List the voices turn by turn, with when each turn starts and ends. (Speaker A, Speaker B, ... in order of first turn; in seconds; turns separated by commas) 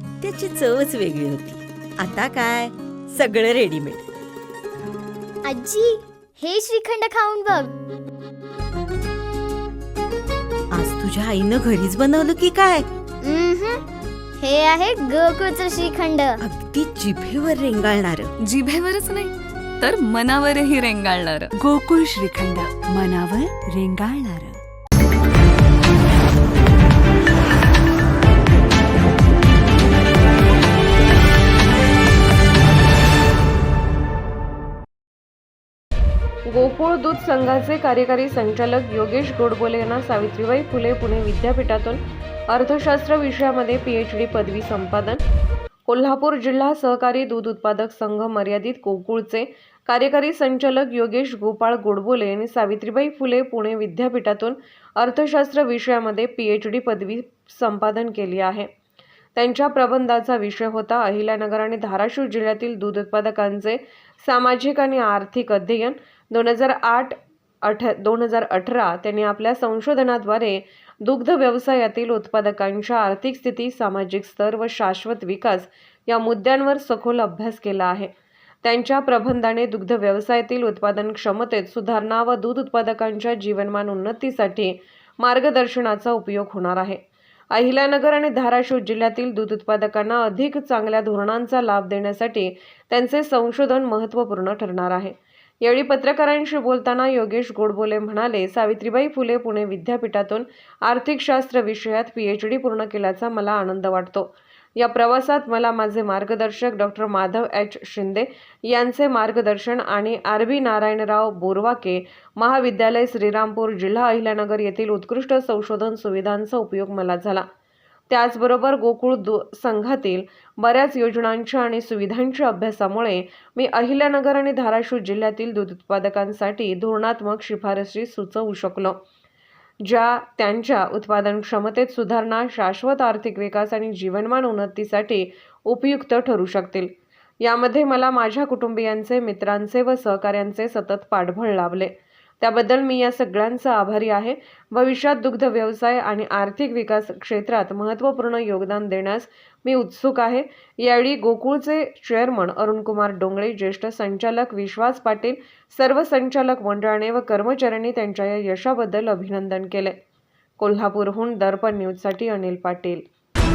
Speaker A: 0.2-4.0, Speaker B: 5.4-7.7, Speaker A: 10.7-12.9, Speaker B: 13.2-13.8, Speaker B: 14.4-16.4, Speaker A: 16.4-18.3, Speaker C: 18.5-21.5, Speaker D: 21.6-24.5, Speaker C: 23.0-23.5, Speaker C: 24.0-24.4, Speaker E: 36.5-45.2, Speaker E: 45.9-58.7, Speaker E: 59.4-78.1, Speaker E: 78.6-117.5, Speaker E: 118.1-129.0, Speaker E: 129.8-160.0, Speaker E: 160.6-163.1